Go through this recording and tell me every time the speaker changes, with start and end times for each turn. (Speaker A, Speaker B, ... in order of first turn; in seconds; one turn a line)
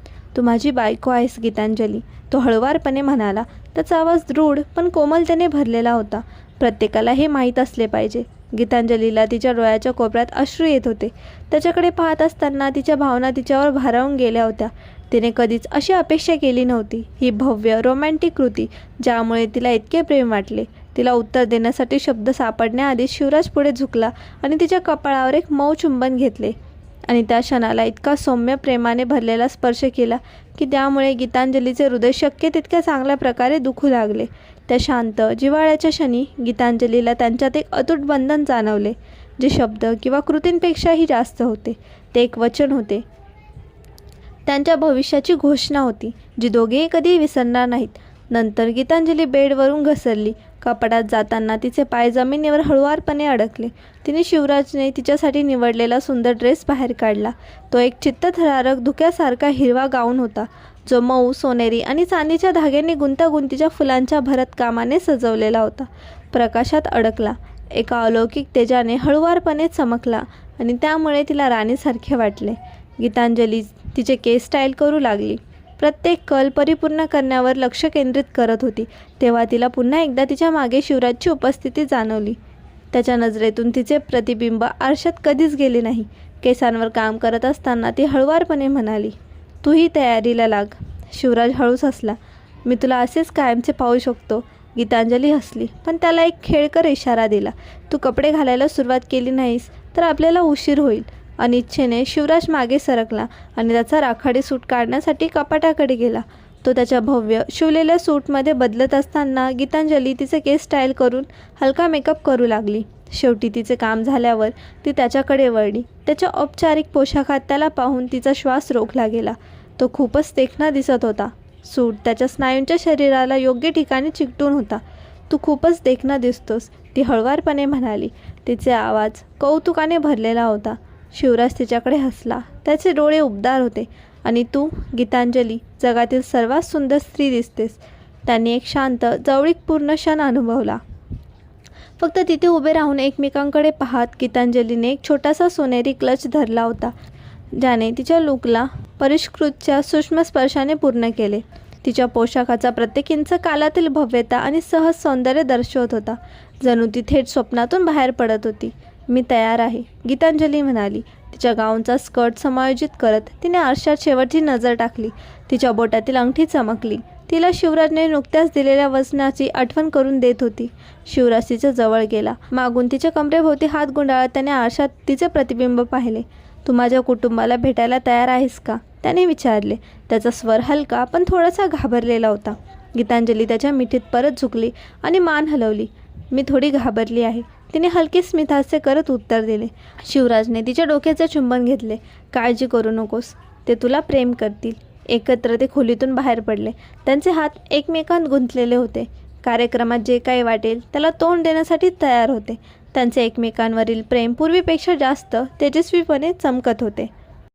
Speaker A: 0.3-26.5
Speaker A: 27.1-43.0
Speaker A: 44.5-82.4
Speaker A: 82.9-140.8
Speaker A: 142.0-146.9
Speaker A: 147.6-207.1